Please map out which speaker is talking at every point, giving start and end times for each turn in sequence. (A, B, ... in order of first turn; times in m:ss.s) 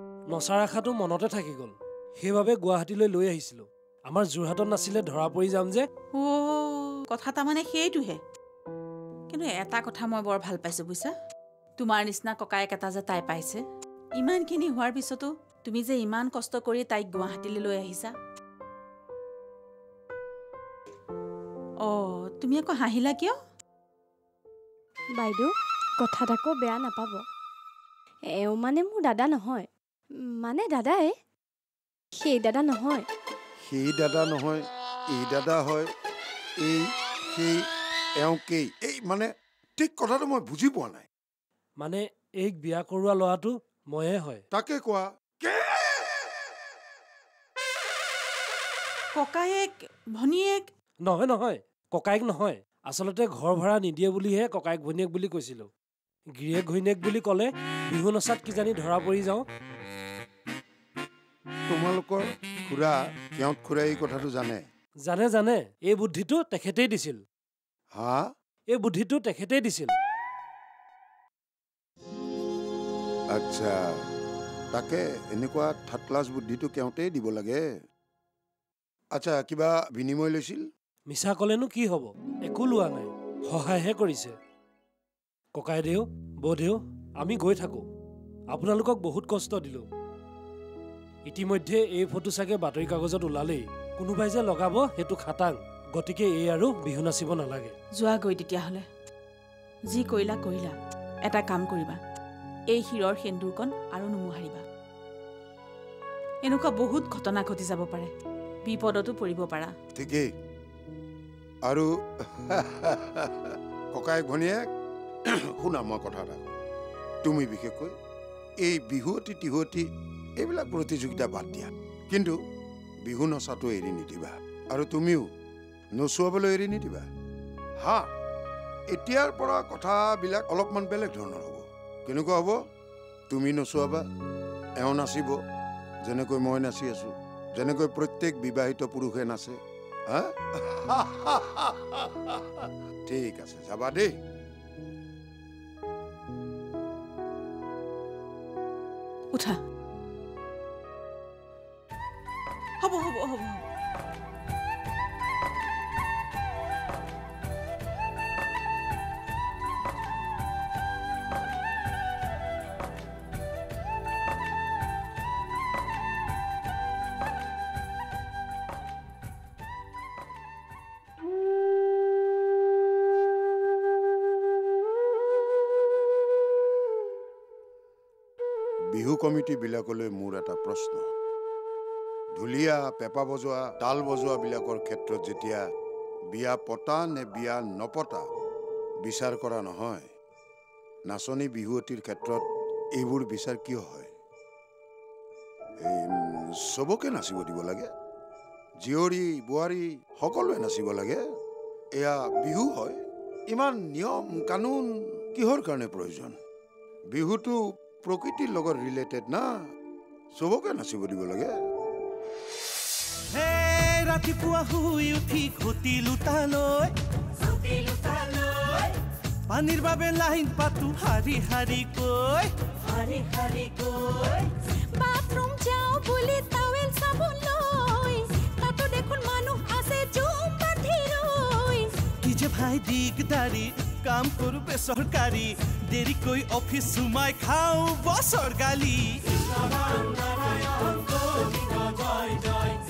0:00.3-0:05.8 A
0:06.2-0:08.2 B
0:09.3-0:11.1 B
0:11.8-0:13.6 B
0:14.2-0:18.1 B
0:21.8-0:23.4 B
0:26.1-0:27.1 C
0:28.4-0:29.6 C
0:30.5-0:31.1 C
0:32.3-0:33.0 C
0:33.6-0:35.9 D
0:36.6-0:37.6 D
0:38.2-0:41.0 D
0:41.8-0:44.4 A
0:44.5-0:46.3 D
0:49.1-0:50.6 B
0:51.0-0:55.7 A
0:56.3-0:59.4 A
1:01.7-1:04.6 D
1:05.0-1:07.2 A
1:07.9-1:08.3 D
1:08.7-1:09.9 A
1:13.3-1:14.0 D
1:14.7-1:17.7 D
1:19.1-1:20.6 D
1:21.1-1:24.3 A
1:25.5-1:27.8 A
1:28.5-1:29.8 A
1:31.2-1:37.7 A
1:38.0-1:38.8 B
1:39.9-1:40.7 B
1:41.2-1:42.0 B
1:42.7-1:44.6 B
1:46.4-1:48.1 B
1:48.6-1:49.7 B
1:50.0-1:50.3 D
1:51.6-1:54.7 D
1:55.5-1:56.5 D
1:57.2-1:57.9 D
1:58.6-1:59.8 D
2:00.4-2:02.4 D
2:03.0-2:05.2 D
2:06.0-2:07.1 D
2:07.8-2:08.1 D
2:08.9-2:12.6 D
2:13.3-2:14.0 D
2:14.8-2:15.3 D
2:16.0-2:19.6 D
2:20.1-2:24.1 D
2:29.3-2:29.6 B
2:32.8-2:33.6 B
2:58.9-3:01.1 D
3:02.3-3:05.6 D
3:06.3-3:08.2 D
3:09.0-3:10.1 D
3:11.0-3:12.4 D
3:13.0-3:14.1 D
3:15.8-3:17.9 D
3:18.8-3:21.2 D
3:22.0-3:26.4 D
3:27.1-3:29.5 D
3:30.3-3:31.5 D
3:33.3-3:36.9 E
3:37.7-3:38.4 E
3:39.5-3:42.5 E
3:45.0-3:51.9 F
3:52.2-3:59.2 E